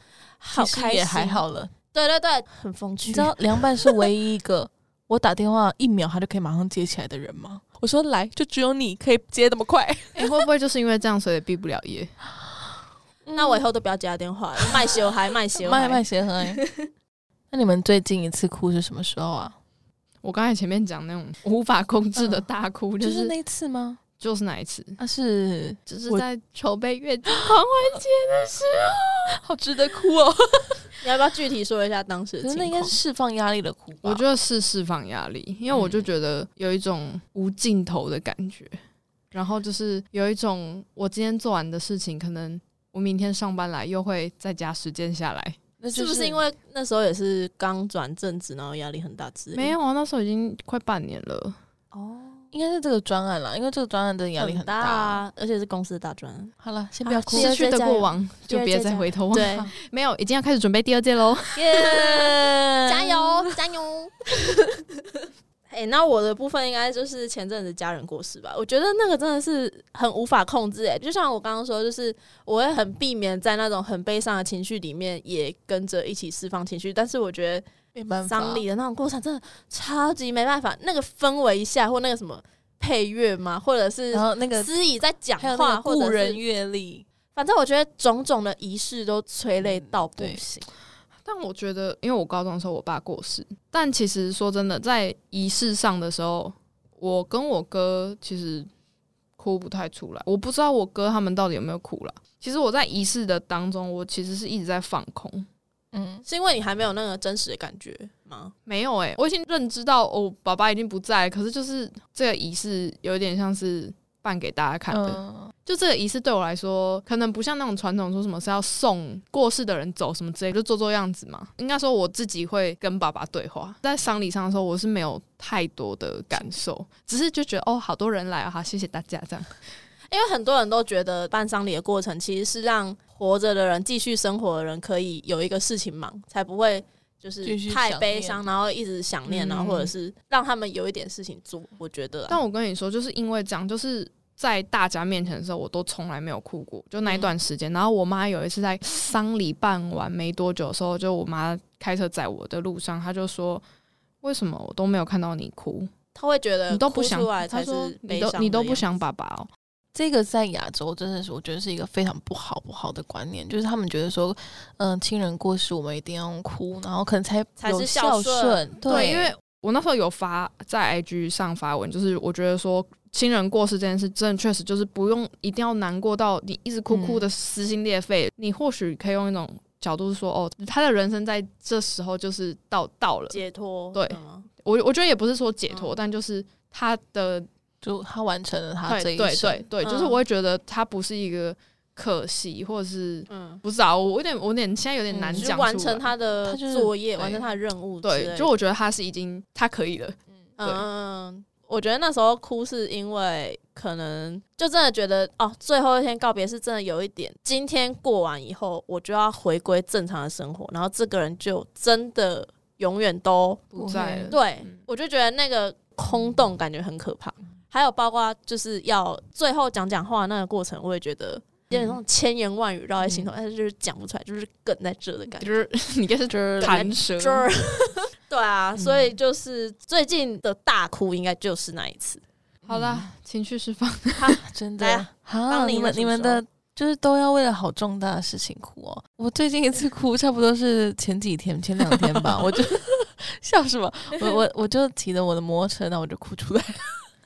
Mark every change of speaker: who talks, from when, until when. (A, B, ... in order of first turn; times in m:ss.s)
0:00.4-0:03.4 A
0:00.5-0:01.7 B
0:03.1-0:10.4 B
0:10.2-0:12.1 C
0:13.2-0:13.6 B
0:13.4-0:16.0 A
0:15.6-0:16.6 B
0:17.5-0:19.5 B
0:20.2-0:23.3 C
0:23.0-0:24.0 B
0:24.2-0:25.0 C
0:25.0-0:26.2 B
0:25.9-0:29.0 C
0:27.3-0:28.0 B
0:29.3-0:30.9 B
0:31.0-0:33.0 A
0:32.4-0:34.2 B
0:34.0-0:38.8 C
0:35.7-0:36.0 B
0:39.3-0:45.6 C
0:45.8-0:46.4 B
0:45.9-0:49.7 A
0:49.5-0:51.6 C
0:51.9-0:52.5 A
0:52.5-0:55.2 B
0:54.4-0:56.5 A
0:56.6-0:57.5 B
0:57.0-0:59.7 A
0:57.3-1:01.6 C
0:59.4-0:59.7 B
1:01.6-1:04.8 A
1:01.7-1:03.5 B
1:05.7-1:17.6 A
1:17.9-1:18.6 B
1:18.2-1:26.4 A
1:24.1-1:24.7 B
1:25.4-1:27.0 B
1:27.4-1:30.6 A
1:29.6-1:30.4 B
1:31.2-1:38.7 C
1:39.4-1:45.5 C
1:45.9-1:46.2 B
1:46.2-1:48.5 A
1:48.6-2:09.5 C
1:54.9-1:55.5 B
2:10.1-2:22.4 A
2:17.4-2:18.4 B
2:19.5-2:19.8 C
2:22.3-2:33.6 C
2:34.2-2:35.9 C
2:36.2-2:38.8 A
2:36.7-2:39.5 C
2:39.9-2:49.3 B
2:47.6-2:49.2 A
2:48.8-3:03.4 C
2:56.9-2:57.3 B
3:03.3-3:04.5 A
3:03.9-3:07.5 C
3:07.8-3:09.6 B
3:08.8-3:16.1 C
3:09.8-3:10.2 A
3:13.3-3:13.6 A
3:15.1-3:15.5 B
3:15.3-3:18.5 A
3:16.4-3:17.4 B
3:18.0-3:20.8 C
3:20.6-3:33.8 A
3:33.8-3:34.4 B
3:33.8-3:34.7 C
3:34.3-3:45.6 A
3:45.4-3:47.5 C
3:46.3-3:46.8 B
3:46.6-3:52.2 A
3:48.8-3:49.0 B
3:52.7-3:54.4 C
3:52.7-3:53.0 B
3:54.2-3:56.4 A
3:54.3-4:06.9 B